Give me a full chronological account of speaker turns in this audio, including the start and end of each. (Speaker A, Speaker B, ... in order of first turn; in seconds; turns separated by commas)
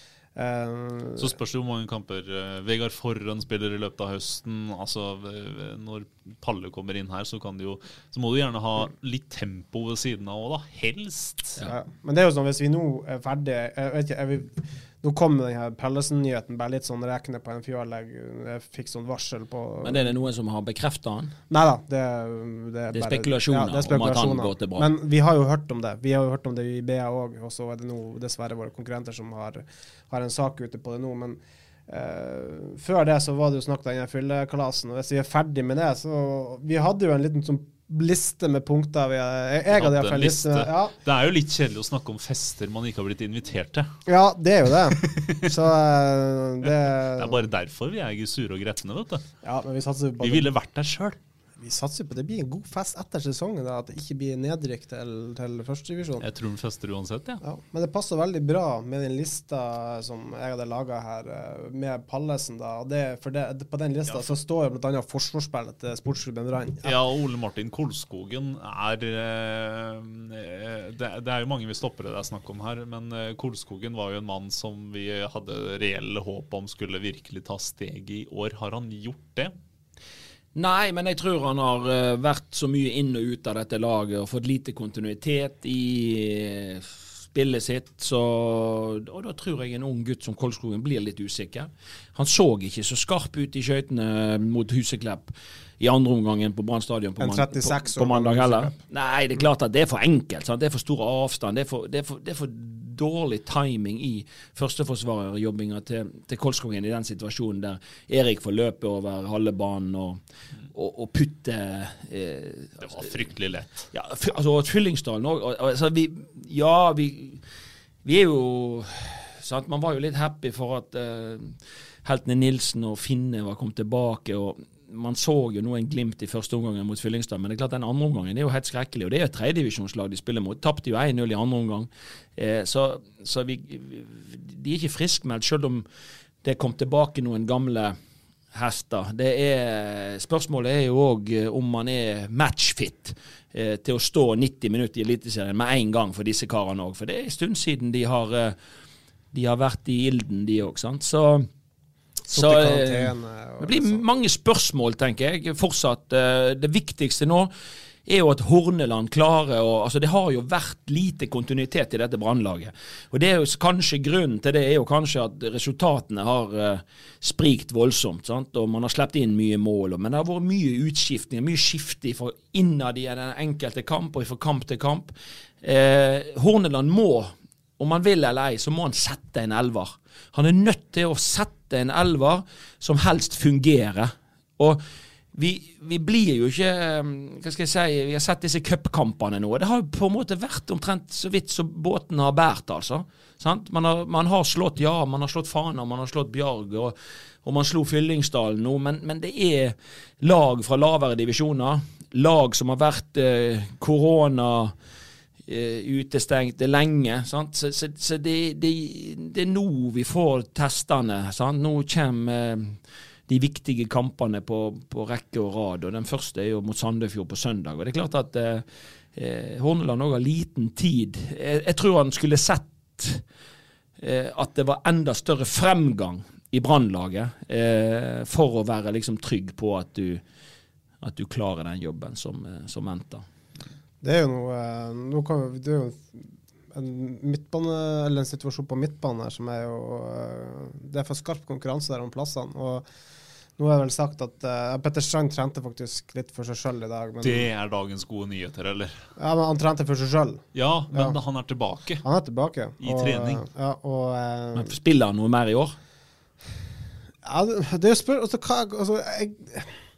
Speaker A: 0.3-1.3, Speaker B: 1.2-11.6, Speaker A: 11.6-20.1, Speaker C: 19.8-21.3, Speaker A: 21.5-40.9, Speaker C: 22.9-24.9, Speaker B: 39.7-43.9, Speaker A: 44.1-47.4, Speaker B: 44.9-45.4, Speaker B: 46.6-49.2, Speaker A: 49.4-50.5, Speaker B: 50.2-51.2, Speaker A: 51.6-56.2, Speaker B: 56.2-57.4, Speaker A: 57.4-66.9, Speaker B: 64.0-64.3, Speaker B: 66.8-79.5, Speaker C: 80.5-110.2, Speaker A: 97.2-98.8, Speaker C: 110.7-113.1, Speaker B: 112.8-113.9, Speaker C: 113.9-117.4, Speaker C: 118.0-135.8, Speaker C: 136.4-138.0, Speaker C: 138.5-148.6, Speaker C: 149.3-151.5, Speaker A: 152.3-154.0, Speaker C: 152.3-157.5, Speaker C: 158.1-184.8, Speaker C: 185.3-204.7, Speaker C: 205.5-223.2, Speaker C: 224.0-230.2, Speaker C: 231.0-233.2, Speaker A: 234.0-236.2, Speaker A: 236.7-242.8, Speaker A: 243.6-247.5, Speaker B: 247.2-248.9, Speaker A: 249.2-251.2, Speaker B: 250.5-252.0, Speaker A: 252.0-254.7, Speaker B: 252.8-253.4, Speaker C: 254.5-255.8, Speaker A: 257.2-259.7